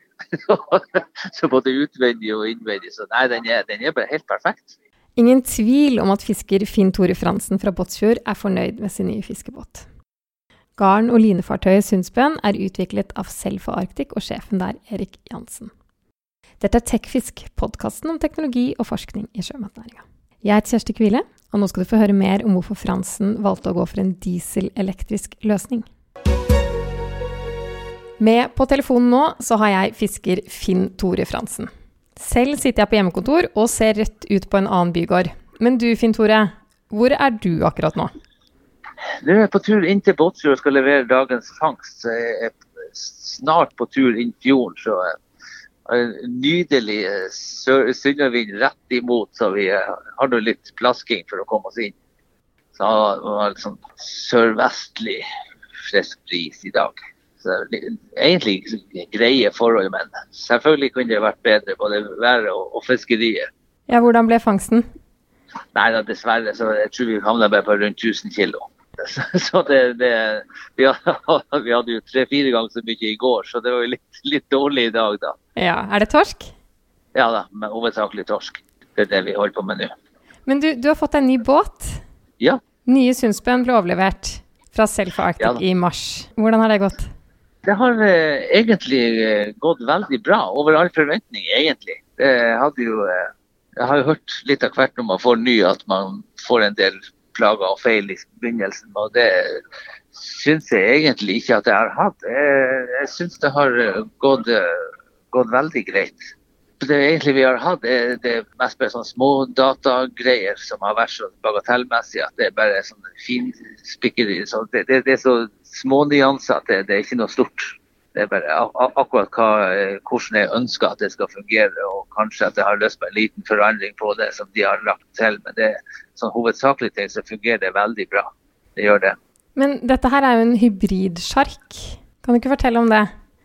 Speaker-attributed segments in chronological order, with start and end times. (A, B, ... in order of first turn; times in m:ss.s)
0:00.3-0:04.8 A
0:05.2-0:09.8 B
0:10.8-0:15.7 B
0:16.6-0:25.9 B
0:28.2-0:38.1 B
0:39.2-0:45.2 A
0:45.9-0:52.0 A
0:52.8-0:55.2 A
0:55.8-1:03.5 A
1:03.9-1:04.8 B
1:05.8-1:15.4 A
1:15.6-1:16.5 B
1:17.2-1:19.9 A
1:20.5-1:22.0 B
1:22.9-1:27.1 B
1:27.6-1:39.6 A
1:40.1-2:09.2 A
2:09.6-2:13.1 B